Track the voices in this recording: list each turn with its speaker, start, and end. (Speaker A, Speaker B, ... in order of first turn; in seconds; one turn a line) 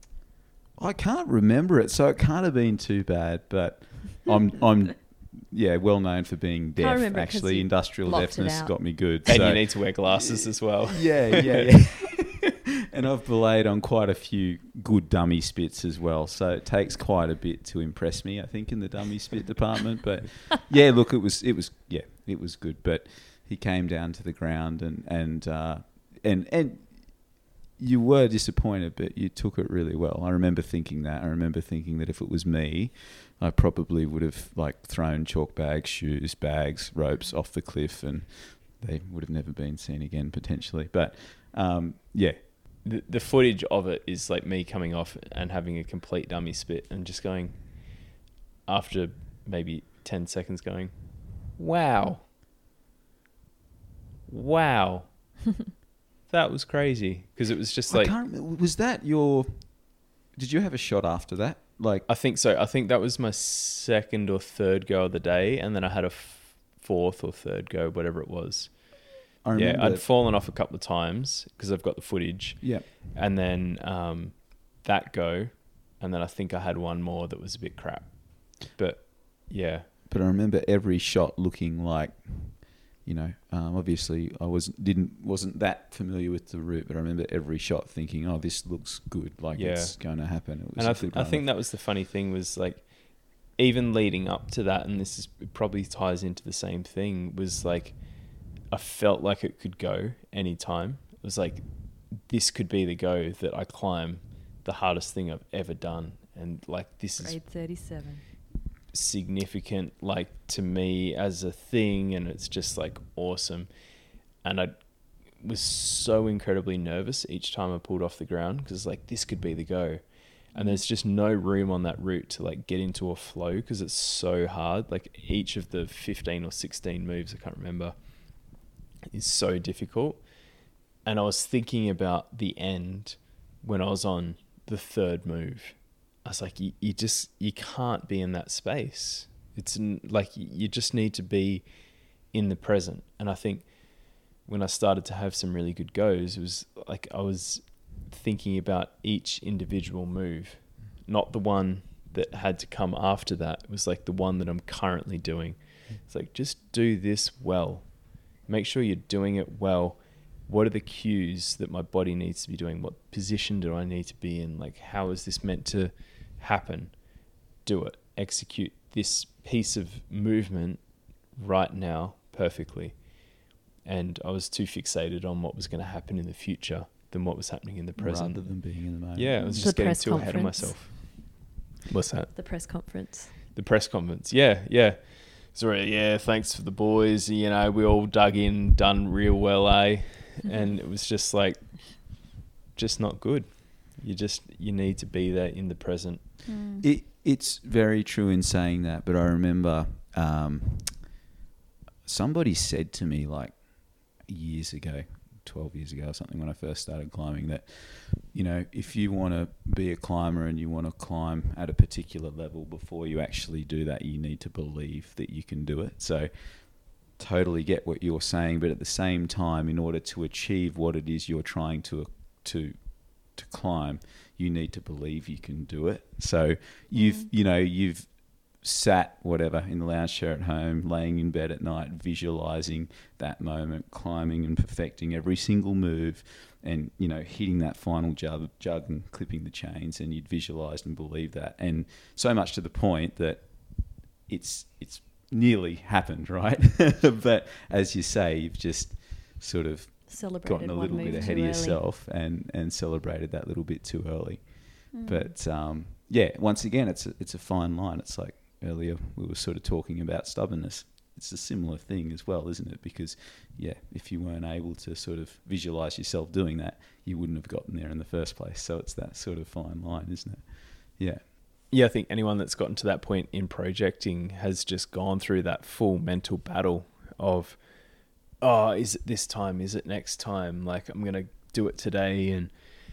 Speaker A: 0.8-42.4
Speaker B: 6.8-9.0
Speaker C: 9.2-11.7
Speaker C: 42.8-48.1
Speaker C: 48.6-52.3
Speaker C: 54.3-55.4
Speaker C: 56.3-58.1
Speaker A: 57.9-62.1
Speaker C: 62.1-79.9
Speaker A: 69.4-70.1
Speaker A: 72.6-72.9
Speaker A: 80.1-91.5
Speaker C: 89.5-107.4
Speaker B: 107.2-108.2
Speaker C: 108.9-128.6
Speaker D: 120.5-120.8
Speaker C: 129.1-196.4
Speaker A: 177.9-180.3
Speaker B: 179.6-181.1
Speaker B: 182.3-183.3
Speaker B: 190.4-190.7
Speaker D: 196.4-196.8
Speaker A: 196.8-201.2
Speaker A: 202.0-271.2
Speaker D: 226.9-227.3
Speaker B: 250.1-251.8
Speaker D: 250.8-251.3
Speaker D: 254.9-255.3
Speaker C: 271.7-282.6